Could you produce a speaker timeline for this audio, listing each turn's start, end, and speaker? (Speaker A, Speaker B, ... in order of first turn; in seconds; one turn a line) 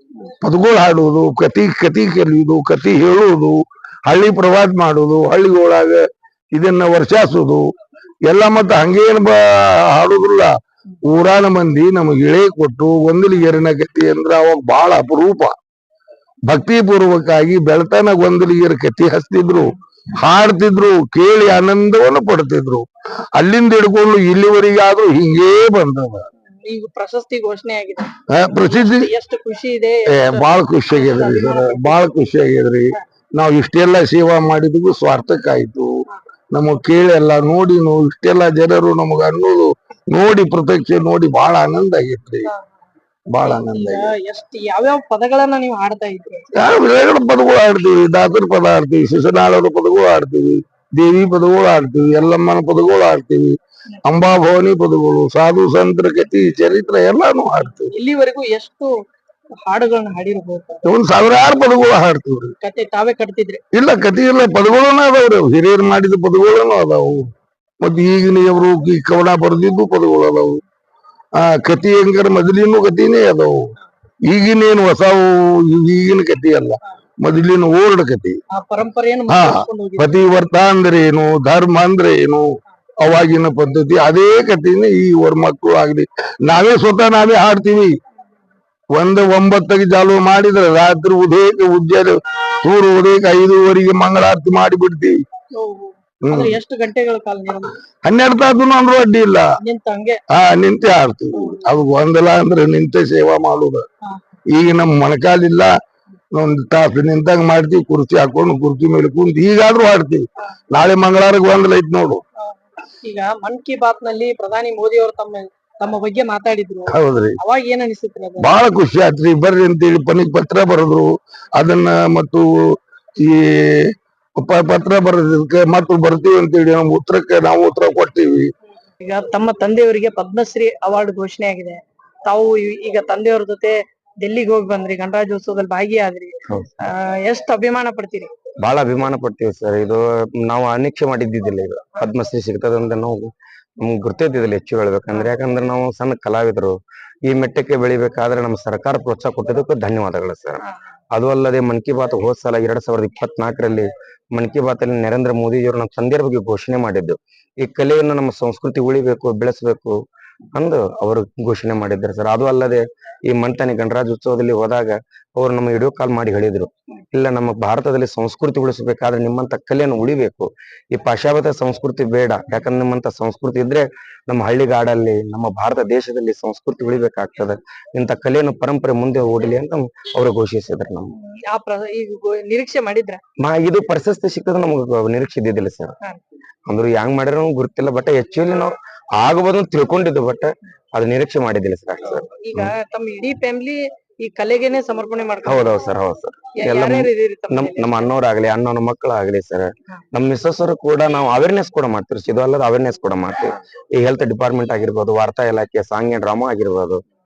Speaker A: 0.3-7.7
Speaker A: 8.3-15.5
Speaker A: 16.4-26.3
Speaker B: 26.6-32.1
Speaker A: 28.3-29.1
Speaker A: 30.1-42.5
Speaker A: 43.3-44.1
Speaker B: 43.4-46.5
Speaker A: 46.5-57.9
Speaker B: 57.9-59.0
Speaker B: 59.6-60.9
Speaker A: 60.8-62.5
Speaker B: 62.6-63.6
Speaker A: 63.7-70.6
Speaker A: 71.4-73.7
Speaker A: 74.2-78.4
Speaker B: 78.5-80.3
Speaker A: 79.3-88.0
Speaker A: 88.9-95.2
Speaker B: 95.5-97.8
Speaker A: 96.2-96.5
Speaker A: 98.0-99.5
Speaker B: 99.6-100.2
Speaker A: 100.3-103.8
Speaker B: 101.3-101.8
Speaker A: 104.5-105.7
Speaker A: 106.3-112.2
Speaker B: 112.4-118.5
Speaker A: 116.9-117.4
Speaker A: 118.4-128.5
Speaker B: 129.0-138.3
Speaker C: 138.6-159.9
Speaker C: 160.5-181.1
Speaker B: 181.3-183.2
Speaker C: 183.4-185.9
Speaker C: 186.7-192.7
Speaker B: 192.0-195.8
Speaker C: 195.4-207.0
Speaker B: 196.6-198.1